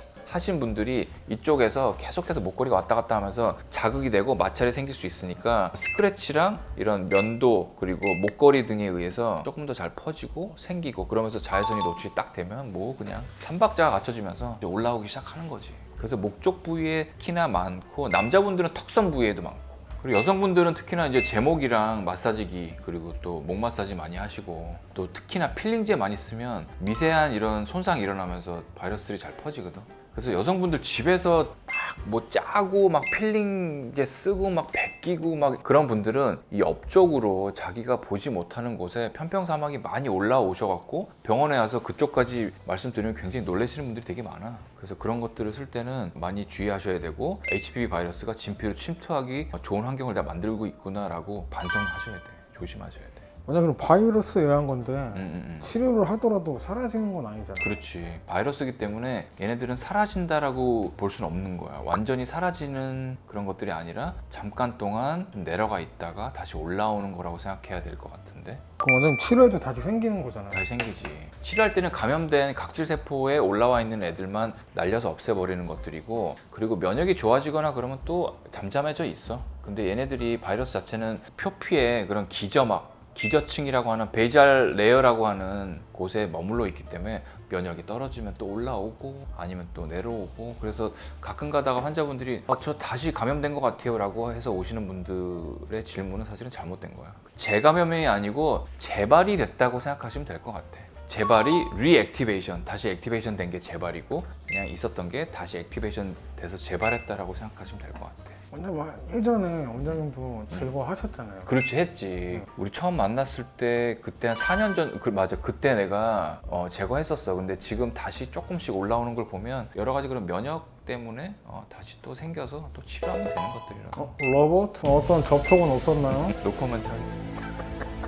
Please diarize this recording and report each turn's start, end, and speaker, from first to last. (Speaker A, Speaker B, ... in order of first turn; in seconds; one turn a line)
Speaker A: 0.3-53.2
Speaker B: 53.5-57.8
Speaker A: 55.1-55.7
Speaker A: 57.6-68.6
Speaker B: 68.8-70.6
Speaker A: 70.5-108.4
Speaker B: 108.5-111.5
Speaker A: 111.5-124.1
Speaker B: 124.0-126.3
Speaker A: 126.3-127.4